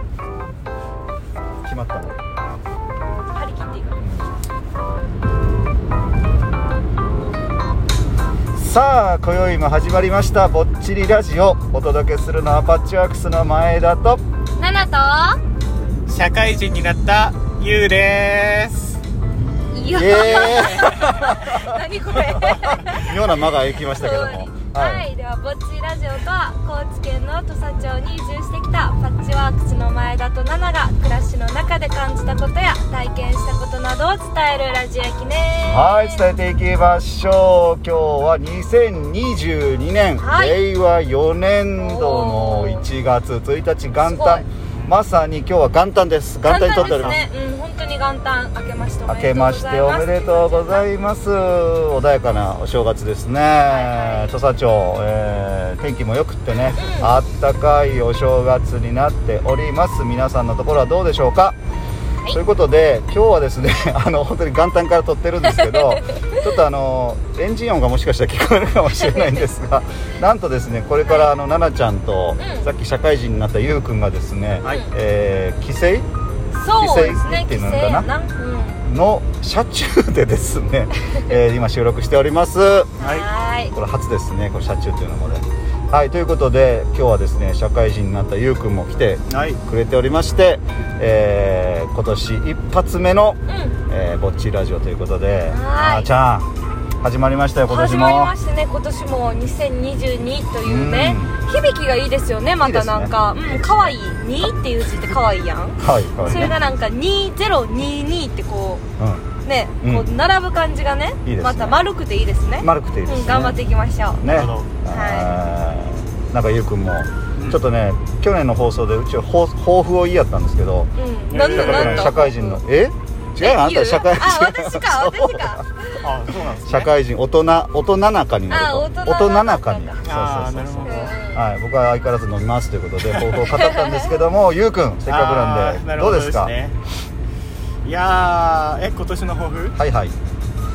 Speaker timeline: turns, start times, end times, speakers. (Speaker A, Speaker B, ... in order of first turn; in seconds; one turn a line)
Speaker A: 1.6-2.2
Speaker B: 3.3-4.1
Speaker A: 4.0-4.3
Speaker A: 8.6-14.2
Speaker B: 14.6-15.4
Speaker C: 16.1-19.0
Speaker B: 19.7-23.1
Speaker A: 19.9-21.8
Speaker C: 20.2-21.1
Speaker A: 22.4-25.1
Speaker B: 23.9-36.4
Speaker A: 35.7-47.2
Speaker B: 40.2-40.6
Speaker B: 41.8-42.9
Speaker B: 44.0-44.5
Speaker B: 46.4-50.9
Speaker A: 49.1-61.6
Speaker B: 53.7-54.4
Speaker B: 56.7-57.1
Speaker A: 62.3-76.1
Speaker B: 65.5-66.5
Speaker B: 69.0-69.4
Speaker B: 71.0-71.3
Speaker B: 72.4-72.7
Speaker C: 74.6-74.9
Speaker B: 76.5-78.8
Speaker A: 76.8-78.1
Speaker A: 78.8-83.0
Speaker C: 83.0-83.3
Speaker B: 83.0-83.8
Speaker A: 83.7-96.5
Speaker C: 89.3-89.6
Speaker B: 93.5-93.8
Speaker B: 95.5-96.1
Speaker A: 97.0-98.3
Speaker B: 97.6-108.8
Speaker A: 100.6-101.4
Speaker A: 102.6-103.2
Speaker C: 103.5-103.9
Speaker A: 105.8-106.5
Speaker C: 106.2-106.5
Speaker A: 109.0-109.3
Speaker B: 109.4-114.2
Speaker A: 109.8-110.1
Speaker A: 111.2-111.8
Speaker A: 112.6-113.6
Speaker A: 114.2-120.9
Speaker C: 114.3-114.8
Speaker B: 114.8-115.4
Speaker C: 117.4-117.6
Speaker B: 121.0-122.6
Speaker C: 121.3-122.2
Speaker A: 121.4-125.7
Speaker B: 123.4-126.1
Speaker C: 126.0-126.9
Speaker A: 126.7-136.5
Speaker B: 128.5-130.1
Speaker C: 130.0-131.2
Speaker B: 130.8-131.4
Speaker C: 133.0-133.5
Speaker B: 133.5-134.2
Speaker C: 135.1-136.8
Speaker C: 137.8-139.8
Speaker A: 139.8-140.2